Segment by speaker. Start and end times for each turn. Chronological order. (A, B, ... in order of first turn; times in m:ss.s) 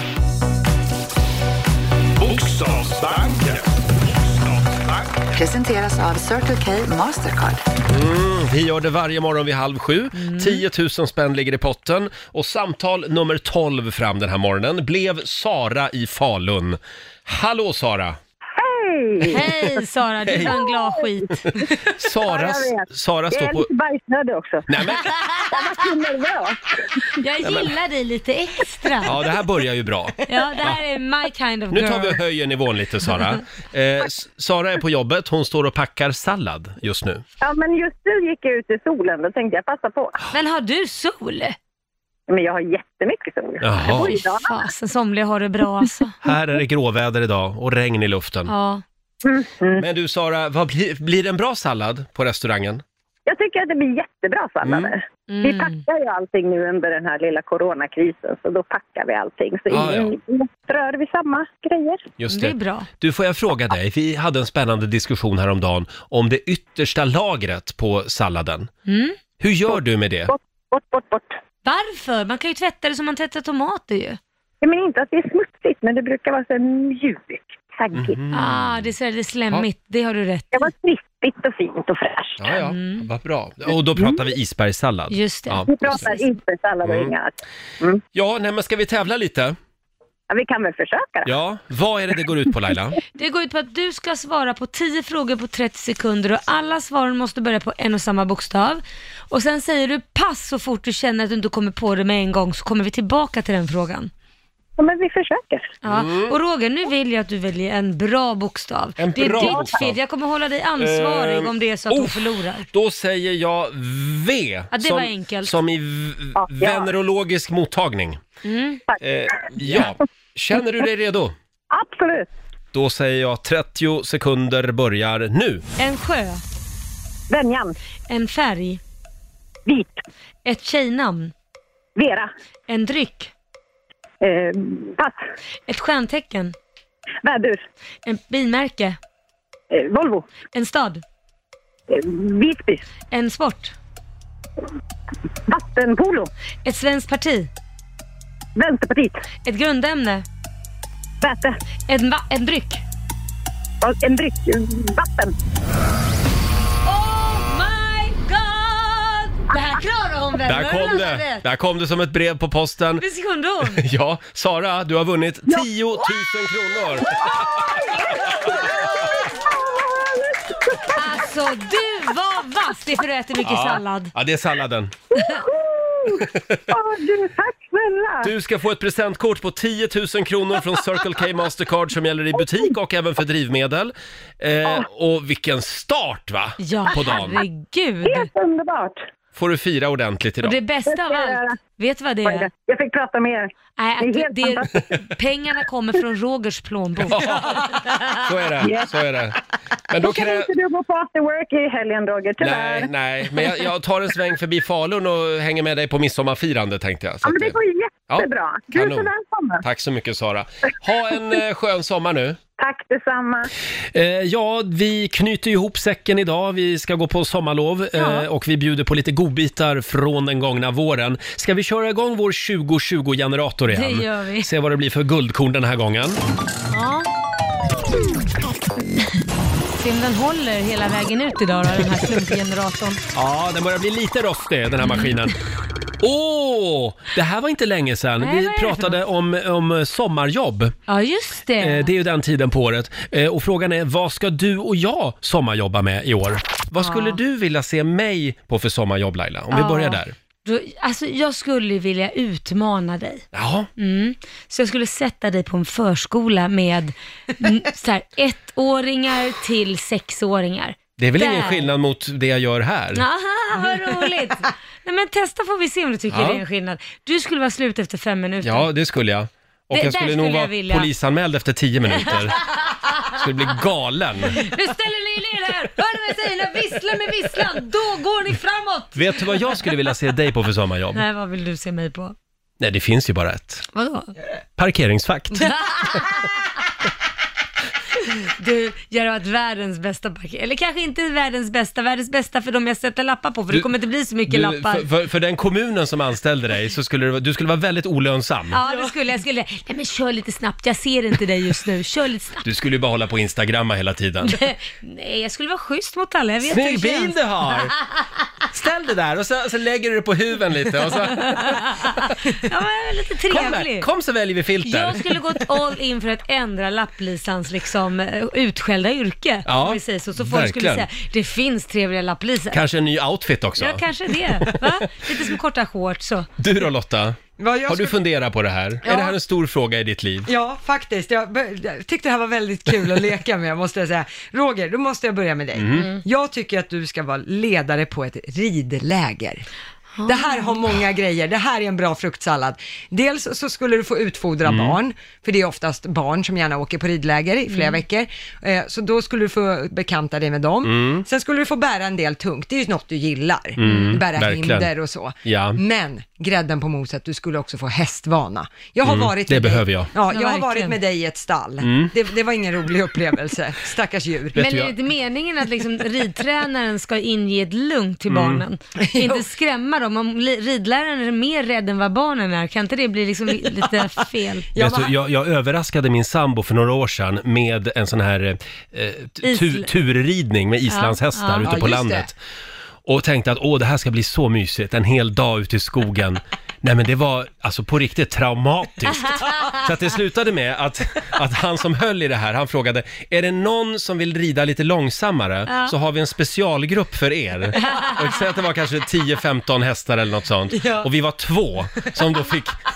0:02.2-0:05.2 A
0:05.3-0:07.6 B
0:07.9-0:18.2 C
0:10.3-0:10.6 D
0:18.6-0:19.5 E
0:19.3-0:21.4 D
0:20.3-0:20.6 C
0:20.5-0:20.9 E
0:21.5-0:23.7 C
0:21.6-0:27.1 E
0:24.7-0:25.1 C
0:27.1-0:29.1 D
0:27.4-0:27.7 C
0:29.0-0:30.8 C
0:30.3-0:32.2 D
0:31.7-0:37.2 C
0:37.4-0:40.2 E
0:40.3-0:41.6 D
0:42.3-0:44.6 E
0:43.6-0:44.2 C
0:43.9-0:46.2 D
0:46.2-0:48.5 C
0:48.5-0:48.8 D
0:49.2-0:49.8 E
0:49.8-0:52.8 C
0:53.3-1:02.0 E
0:54.6-0:54.9 C
0:55.3-0:55.8 D
0:59.7-1:00.1 C
1:02.2-1:08.7 C
1:02.3-1:02.9 D
1:08.9-1:09.2 D
1:09.4-1:10.3 C
1:10.3-1:11.4 E
1:11.6-1:14.2 D
1:14.6-1:18.2 E
1:17.9-1:18.9 C
1:18.3-1:20.7 D
1:20.5-1:22.4 E
1:22.4-1:26.1 C
1:22.6-1:23.0 D
1:25.1-1:26.2 D
1:25.7-1:28.0 E
1:26.8-1:27.1 C
1:28.1-1:29.6 C
1:30.3-1:31.3 E
1:31.3-1:33.0 C
1:33.2-1:44.1 D
1:44.8-1:45.7 E
1:45.8-1:52.7 D
1:45.8-1:46.4 C
1:49.0-1:50.0 C
1:49.2-1:49.6 E
1:50.8-1:58.2 C
1:54.7-1:55.6 D
1:56.4-1:56.9 E
1:58.4-1:58.8 D
1:59.0-2:01.4 C
2:01.7-2:02.3 E
2:02.7-2:05.6 C
2:05.8-2:06.4 D
2:07.3-2:07.8 E
2:08.1-2:08.8 D
2:09.7-2:10.0 E
2:10.4-2:11.3 D
2:12.0-2:12.3 E
2:12.7-2:13.3 D
2:14.2-2:15.2 E
2:15.7-2:16.6 D
2:17.2-2:17.6 E
2:18.1-2:19.0 D
2:19.7-2:20.3 E
2:20.5-2:21.0 D
2:21.9-2:22.8 E
2:23.1-2:23.7 D
2:25.5-2:26.3 E
2:26.6-2:27.5 D
2:28.6-2:29.2 E
2:29.4-2:30.2 D
2:31.2-2:31.6 E
2:31.9-2:32.8 D
2:33.8-2:35.4 E
2:36.8-2:41.4 D
2:40.5-2:43.0 C
2:43.0-2:43.8 D
2:43.8-2:47.6 C
2:47.0-2:51.0 E
2:50.9-2:54.1 D
2:53.4-2:55.0 C
2:55.1-2:58.3 E
2:56.2-2:56.6 C
2:58.2-3:07.4 C
3:06.6-3:08.3 D
3:08.0-3:09.0 E
3:09.4-3:10.6 C
3:10.4-3:12.5 D
3:10.9-3:11.6 E
3:12.3-3:14.7 E
3:13.8-3:17.3 D
3:17.0-3:17.6 C
3:18.2-3:19.4 C
3:18.6-3:18.9 E
3:19.9-3:20.5 C
3:20.0-3:22.9 E
3:22.4-3:27.6 C
3:27.2-3:29.6 E
3:28.1-3:29.1 C
3:29.6-3:32.4 C
3:32.6-3:33.5 E
3:33.9-3:46.2 C
3:38.0-3:38.2 D
3:43.7-3:44.5 D
3:46.7-3:47.1 D
3:49.7-3:53.0 D
3:53.2-3:55.4 C
3:54.8-3:55.2 D
3:56.0-4:00.8 C
3:58.2-3:59.0 D
4:00.9-4:01.9 D
4:01.6-4:10.1 C
4:06.8-4:07.2 D
4:09.5-4:13.2 D
4:13.3-4:13.7 C
4:13.8-4:21.7 D
4:21.0-4:23.0 C
4:23.0-4:28.7 D
4:26.1-4:26.4 C
4:28.4-4:32.4 C
4:29.7-4:30.9 D
4:33.1-4:34.4 C
4:34.3-4:39.7 D
4:39.0-4:41.0 C
4:41.0-4:42.2 D
4:42.6-4:43.7 C
4:43.7-4:44.1 D
4:44.6-4:45.5 C
4:45.4-4:46.2 D
4:48.4-4:54.9 D
4:54.3-4:58.6 C
4:58.5-5:02.5 D
5:02.4-5:04.4 C
5:04.2-5:07.8 D
5:06.4-5:07.7 C
5:08.5-5:12.1 C
5:11.3-5:13.9 D
5:13.3-5:15.1 C
5:14.6-5:22.6 D
5:19.5-5:20.9 C
5:22.5-5:23.8 C
5:23.6-5:26.3 D
5:26.4-5:30.3 C
5:27.4-5:28.0 F
5:28.8-5:29.2 F
5:30.3-5:39.5 F
5:35.6-5:35.9 C
5:40.0-5:40.5 D
5:40.1-6:04.4 F
5:44.4-5:44.8 C
5:47.5-5:47.8 D
5:50.6-5:51.0 C
5:53.6-5:54.7 C
5:55.2-5:55.6 C
5:58.8-5:59.9 C
6:00.1-6:00.8 D
6:01.6-6:01.9 C
6:04.4-6:04.7 C
6:04.4-6:14.5 D
6:08.1-6:08.4 C
6:08.8-6:09.2 F
6:14.5-6:14.9 F
6:14.6-6:22.2 C
6:19.2-6:19.7 D
6:20.7-6:21.5 D
6:21.4-6:22.1 F
6:22.9-6:42.6 C
6:35.5-6:35.7 D
6:37.6-6:38.0 D
6:40.5-6:40.9 F